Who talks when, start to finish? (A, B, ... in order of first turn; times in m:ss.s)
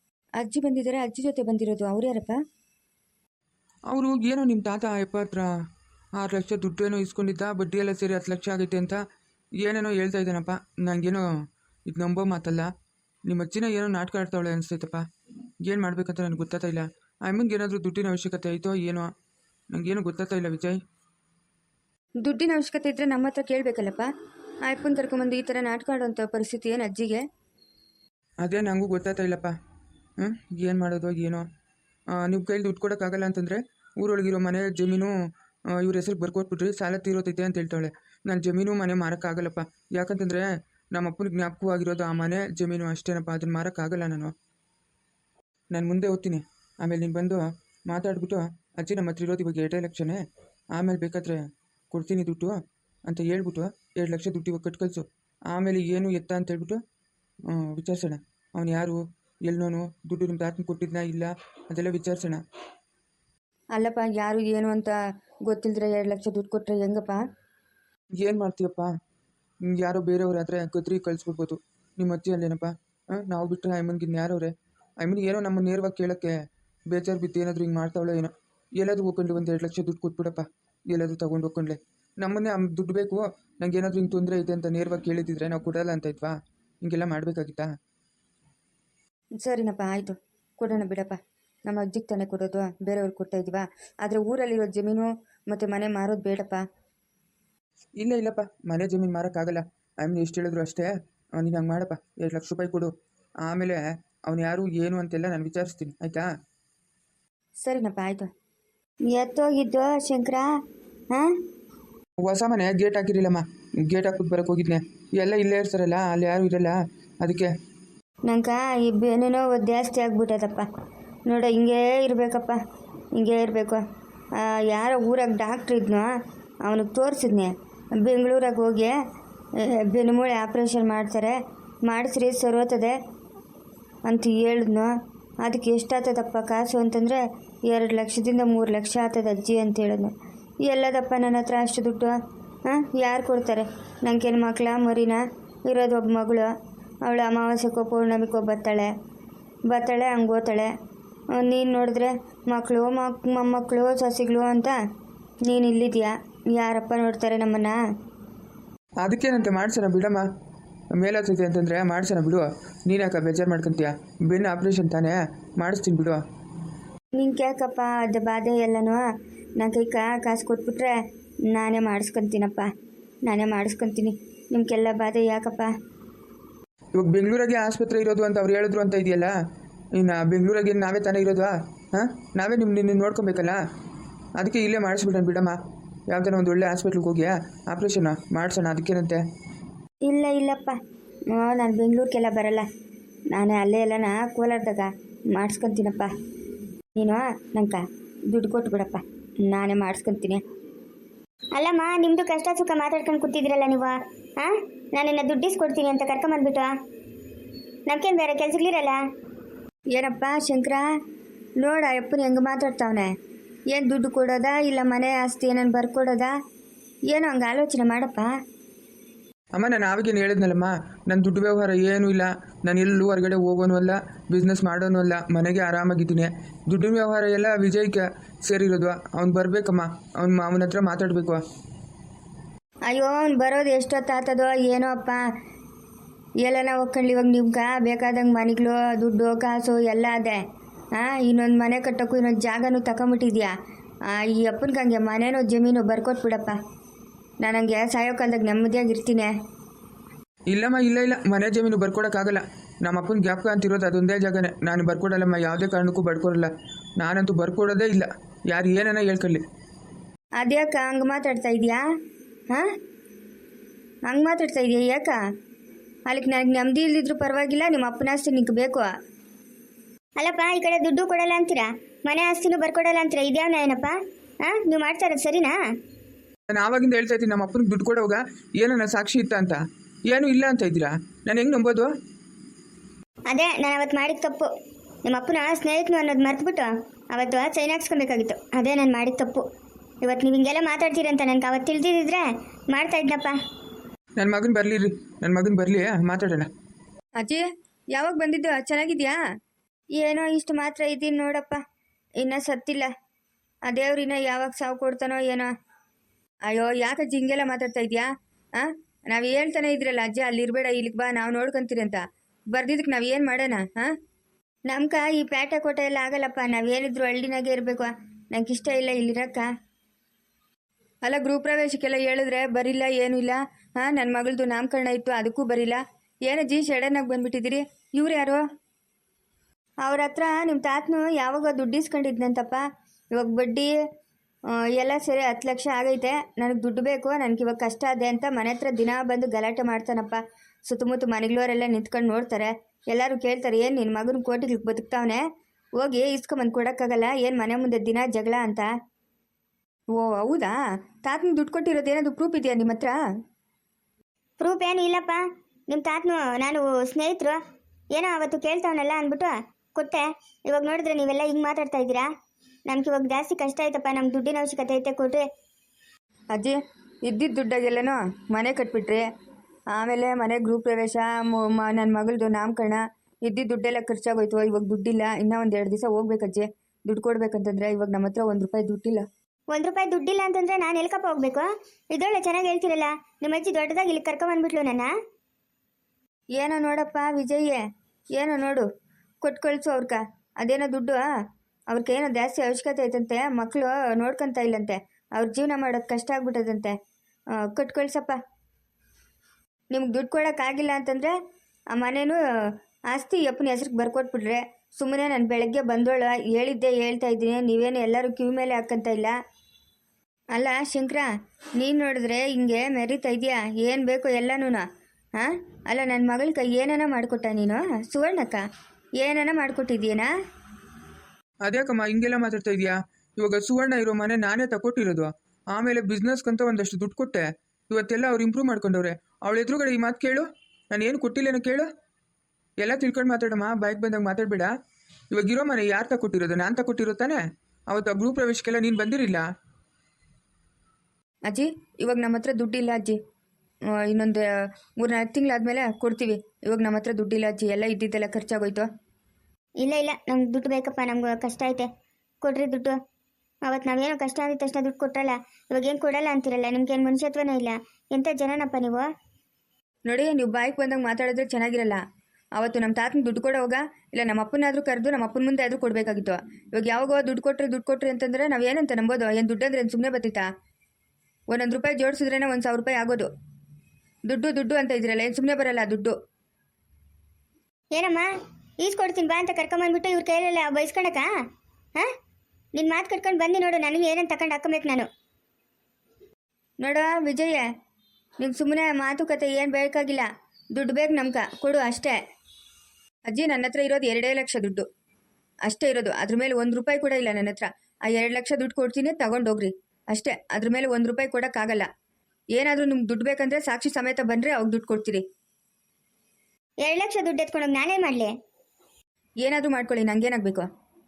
0:00.4-0:02.4 A
0:03.9-0:05.5 B
0:06.2-0:09.0 B
0:09.6-0:12.7 B
0:13.3-0:15.0 B
0:15.6-0:19.1 B
0:19.7-0:20.8 B
0:22.2-0:24.1 A
0:24.6-0:27.2 A
0:28.4-0:29.5 B
0:30.2-0:31.4 B
0:32.2-0:35.1 B
0:35.7-0:44.3 B
0:45.7-0:50.2 B
0:50.7-0:56.8 B
0:57.5-1:02.4 B
1:03.8-1:05.0 A
1:05.5-1:07.2 A
1:08.2-1:08.9 B
1:09.6-1:27.7 B
1:29.4-1:36.6 A
1:38.0-1:42.9 B
1:43.4-1:46.3 B
1:47.6-1:48.3 A
1:49.1-1:50.5 A
1:52.2-1:57.5 B
1:58.3-2:00.7 A
2:01.3-2:02.6 A
2:03.2-2:03.8 A
2:04.4-2:06.1 A
2:06.6-2:09.0 A
2:09.6-2:13.0 A
2:14.1-2:20.1 A
2:20.6-2:22.2 A
2:22.7-2:26.5 A
2:27.0-2:28.9 A
2:29.7-2:30.7 A
2:31.4-2:34.8 A
2:35.5-2:37.8 A
2:39.0-2:40.3 B
2:41.0-2:46.2 B
2:47.2-2:49.0 A
2:49.6-2:51.0 A
2:51.5-2:52.7 A
2:53.2-2:55.7 A
2:57.0-2:59.3 B
3:00.0-3:03.6 B
3:04.4-3:05.6 B
3:06.1-3:09.2 B
3:10.1-3:10.8 A
3:11.3-3:12.7 A
3:13.3-3:16.1 A
3:17.0-3:20.4 A
3:21.6-3:26.7 C
3:27.9-3:29.0 C
3:30.0-3:30.8 A
3:31.6-3:33.1 A
3:33.7-3:36.3 A
3:37.1-3:38.3 A
3:39.6-3:51.4 B
3:52.9-3:55.2 A
3:56.4-4:00.4 A
4:01.0-4:03.5 A
4:04.1-4:06.6 A
4:07.4-4:09.3 A
4:10.5-4:19.4 B
4:20.4-4:21.8 A
4:24.1-4:25.2 A
4:26.1-4:28.9 A
4:30.2-4:35.6 C
4:36.5-4:41.9 B
4:43.3-4:44.5 C
4:45.1-4:49.4 C
4:50.0-4:53.4 C
4:54.2-4:56.5 B
4:57.2-4:59.2 A
5:00.0-5:01.6 A
5:02.2-5:02.9 A
5:03.7-5:05.5 A
5:06.5-5:08.1 A
5:08.6-5:12.0 A
5:12.5-5:13.9 A
5:14.7-5:19.5 A
5:21.0-5:28.4 A
5:29.8-5:32.6 A
5:33.2-5:33.7 A
5:34.6-5:45.2 A
5:45.8-5:48.7 A
5:49.9-5:53.0 A
5:54.4-5:57.4 C
5:57.9-6:02.1 C
6:02.7-6:05.3 C
6:06.3-6:09.1 A
6:09.7-6:19.0 A
6:19.5-6:24.9 C
6:26.4-6:27.6 A
6:28.2-6:28.7 A
6:29.2-6:31.0 A
6:31.7-6:36.8 A
6:37.4-6:38.2 A
6:39.7-6:41.1 A
6:41.7-6:42.2 A
6:42.9-6:49.2 A
6:50.3-6:51.1 A
6:51.6-6:54.6 A
6:55.2-6:58.4 A
6:59.0-7:00.1 A
7:01.4-7:11.7 B
7:12.6-7:14.5 B
7:15.1-7:19.2 B
7:21.3-7:23.0 A
7:23.8-7:24.3 A
7:24.8-7:28.7 A
7:29.6-7:31.7 C
7:32.2-7:32.8 C
7:33.5-7:38.8 C
7:39.9-7:41.8 A
7:42.4-7:50.2 A
7:51.3-7:53.1 A
7:54.1-7:56.0 A
7:57.7-7:58.1 C
7:58.6-8:01.1 C
8:02.6-8:04.9 C
8:06.6-8:07.4 A
8:08.2-8:12.0 A
8:13.1-8:14.7 A
8:15.5-8:21.7 A
8:22.4-8:25.0 A
8:26.6-8:28.1 C
8:29.2-8:30.5 A